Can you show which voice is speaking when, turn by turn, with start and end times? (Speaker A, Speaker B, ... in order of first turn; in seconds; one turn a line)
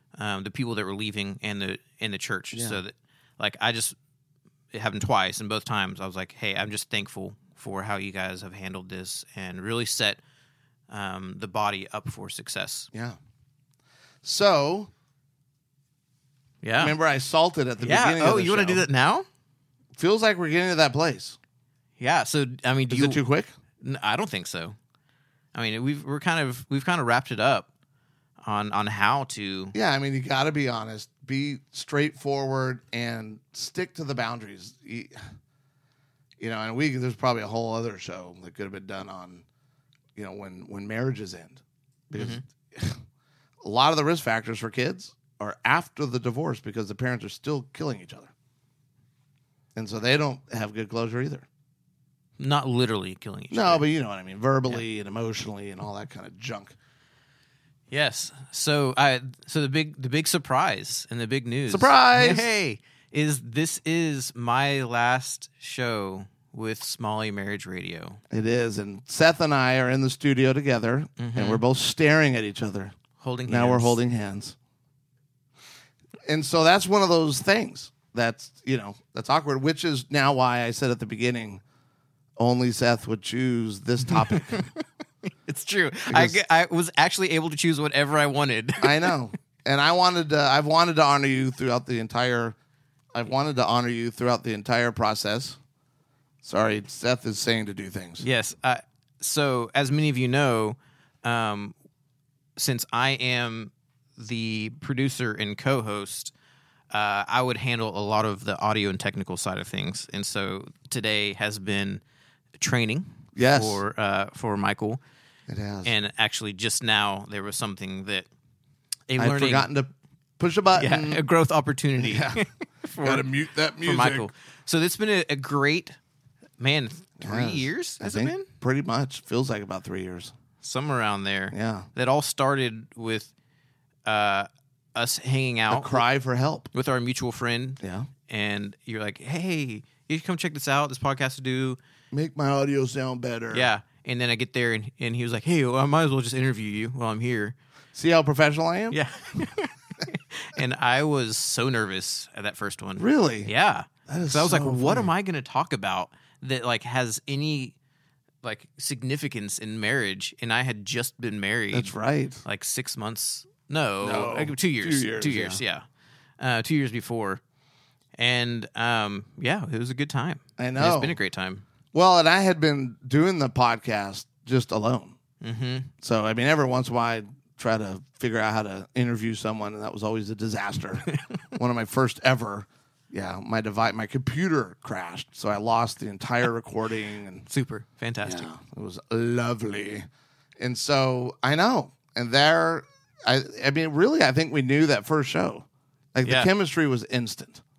Speaker A: 0.2-4.0
Speaker B: 2.5-2.8
Speaker A: 4.7-10.2
Speaker A: 10.9-12.9
Speaker B: 12.9-13.2
Speaker B: 14.2-14.9
Speaker A: 16.6-16.9
Speaker B: 16.8-18.9
Speaker A: 17.8-19.3
Speaker B: 19.9-21.4
Speaker A: 22.0-23.2
Speaker B: 22.9-23.5
Speaker A: 23.8-24.8
Speaker A: 25.5-27.7
Speaker A: 28.4-29.7
Speaker B: 29.7-35.2
Speaker B: 36.4-39.4
Speaker B: 40.2-43.0
Speaker A: 42.1-42.4
Speaker B: 43.6-48.3
Speaker B: 49.8-51.5
Speaker A: 52.4-53.9
Speaker B: 53.5-56.8
Speaker A: 57.9-68.2
Speaker B: 61.7-62.5
Speaker B: 68.3-72.9
Speaker A: 71.2-71.6
Speaker A: 73.2-74.0
Speaker B: 73.5-74.6
Speaker B: 76.3-81.6
Speaker B: 82.4-84.7
Speaker A: 84.1-84.7
Speaker A: 85.5-89.2
Speaker B: 86.1-86.4
Speaker B: 88.8-92.6
Speaker B: 93.2-95.6
Speaker B: 96.4-98.2
Speaker A: 98.2-101.8
Speaker A: 102.6-106.3
Speaker A: 106.9-112.0
Speaker A: 112.6-115.0
Speaker B: 113.3-113.8
Speaker B: 115.5-115.9
Speaker A: 115.8-118.3
Speaker A: 119.1-119.7
Speaker B: 119.2-121.2
Speaker A: 120.8-123.3
Speaker B: 122.0-122.5
Speaker B: 123.0-124.3
Speaker A: 123.8-126.0
Speaker A: 126.6-128.5
Speaker B: 127.2-130.3
Speaker A: 130.6-133.3
Speaker B: 131.5-131.9
Speaker A: 134.1-136.0
Speaker B: 135.7-136.7
Speaker A: 136.7-141.8
Speaker B: 137.8-138.1
Speaker B: 142.1-143.7
Speaker A: 143.5-147.6
Speaker B: 147.9-149.0
Speaker A: 148.9-157.8
Speaker B: 153.0-153.5
Speaker B: 154.1-155.1
Speaker A: 158.4-161.9
Speaker B: 161.7-162.4
Speaker A: 162.4-165.8
Speaker B: 164.0-165.6
Speaker A: 166.4-167.4
Speaker A: 168.2-171.7
Speaker B: 170.6-171.2
Speaker B: 171.9-175.2
Speaker A: 175.4-175.9
Speaker B: 176.0-187.5
Speaker A: 187.5-188.5
Speaker B: 188.2-190.1
Speaker B: 190.6-197.6
Speaker A: 196.2-196.5